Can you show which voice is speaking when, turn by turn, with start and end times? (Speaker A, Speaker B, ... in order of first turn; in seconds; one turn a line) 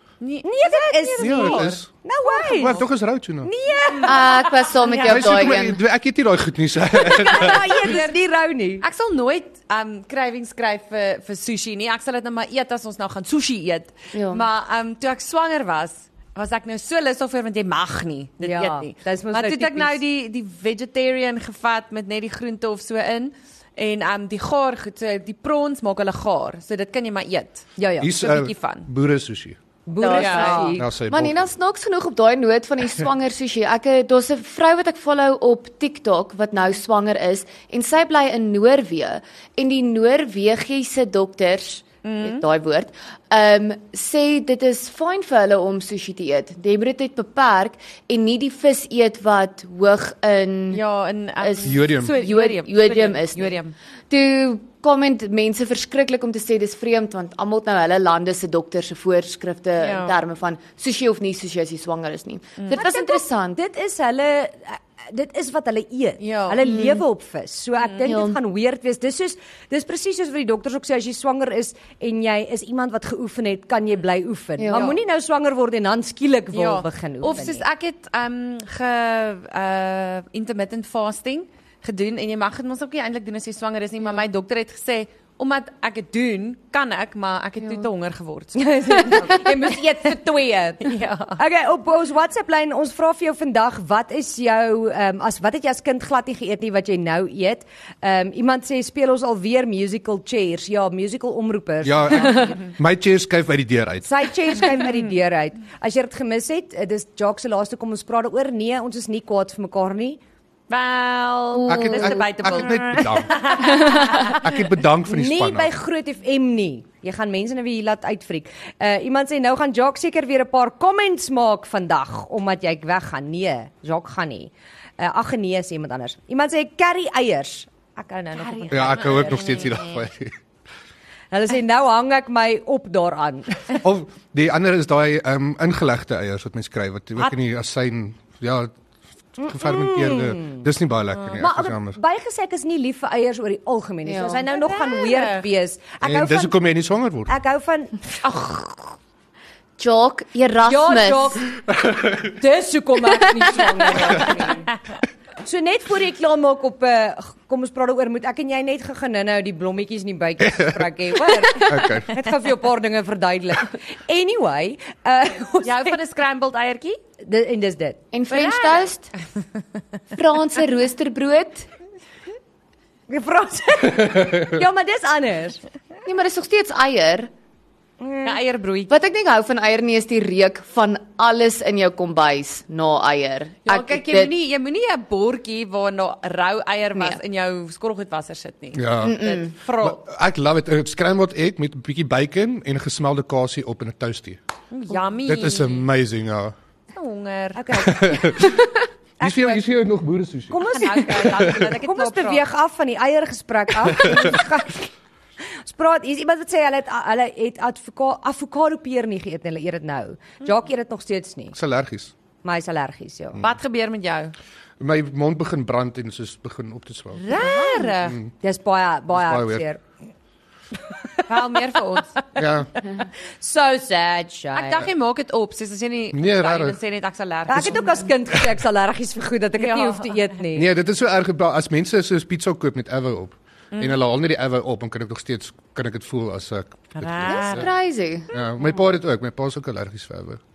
Speaker A: 0.2-2.8
Speaker B: 0.4-2.8
Speaker C: 1.2-1.9
Speaker C: 2.5-3.5
Speaker B: 3.4-4.4
Speaker A: 3.9-5.4
Speaker D: 4.0-5.8
Speaker C: 5.0-7.7
Speaker B: 6.9-8.8
Speaker A: 7.4-8.1
Speaker A: 8.8-28.9
Speaker D: 14.1-14.4
Speaker B: 18.4-20.0
Speaker B: 27.8-28.1
Speaker C: 28.0-29.6
Speaker B: 29.9-30.9
Speaker D: 30.0-50.8
Speaker A: 30.1-30.7
Speaker C: 30.8-31.5
Speaker A: 42.0-42.4
Speaker A: 50.7-53.7
Speaker D: 51.4-53.5
Speaker C: 51.6-52.1
Speaker D: 54.1-63.6
Speaker A: 59.8-60.2
Speaker B: 62.7-77.6
Speaker A: 66.2-66.7
Speaker D: 66.7-67.0
Speaker A: 67.8-68.1
Speaker D: 68.0-68.4
Speaker D: 74.6-74.9
Speaker A: 76.5-90.2
Speaker B: 88.5-102.6
Speaker A: 90.8-91.4
Speaker C: 101.8-104.2
Speaker B: 104.0-110.2
Speaker A: 110.7-114.4
Speaker D: 111.5-112.2
Speaker C: 111.7-115.7
Speaker B: 115.1-129.6
Speaker A: 128.4-129.9
Speaker C: 128.7-130.3
Speaker B: 131.3-133.8
Speaker C: 133.8-138.7
Speaker B: 139.4-140.6
Speaker C: 139.4-142.0
Speaker A: 141.2-141.5
Speaker B: 141.4-146.6
Speaker D: 144.0-144.4
Speaker A: 144.5-145.4
Speaker C: 146.0-147.3
Speaker B: 147.3-148.0
Speaker A: 148.2-148.7
Speaker D: 149.8-151.5
Speaker B: 150.6-151.5
Speaker C: 151.8-152.3
Speaker B: 152.2-154.7
Speaker D: 153.4-154.4
Speaker B: 155.4-165.9
Speaker C: 160.4-160.8
Speaker C: 161.6-162.1
Speaker A: 165.6-167.0
Speaker B: 167.2-168.0
Speaker D: 168.1-169.1
Speaker A: 168.3-168.9
Speaker D: 170.1-171.7
Speaker B: 173.1-175.6
Speaker D: 176.1-177.3
Speaker B: 178.0-178.4
Speaker A: 178.2-178.9
Speaker D: 178.9-184.3
Speaker A: 183.7-190.0
Speaker C: 188.7-194.4
Speaker D: 189.0-189.5
Speaker A: 194.7-195.8
Speaker C: 195.2-196.5
Speaker A: 196.9-198.0
Speaker B: 197.6-198.4
Speaker C: 197.8-198.5
Speaker B: 199.2-199.6
Speaker C: 199.2-200.6
Speaker B: 200.5-204.9
Speaker A: 200.7-202.4
Speaker C: 201.3-201.5
Speaker C: 204.0-204.3
Speaker B: 205.6-211.6
Speaker C: 211.5-212.1
Speaker B: 212.4-213.4
Speaker A: 213.4-214.3
Speaker C: 214.8-217.3
Speaker A: 217.2-218.2
Speaker B: 217.4-217.9
Speaker C: 218.0-218.3
Speaker B: 218.4-219.8
Speaker C: 219.1-219.7
Speaker A: 221.3-222.2
Speaker C: 222.3-222.7
Speaker B: 223.4-224.9
Speaker A: 224.5-228.1
Speaker C: 226.1-226.8
Speaker B: 227.5-230.7
Speaker A: 229.6-230.2
Speaker C: 230.5-237.7
Speaker A: 233.7-234.0
Speaker A: 237.0-237.7
Speaker D: 237.2-238.3
Speaker C: 238.3-240.4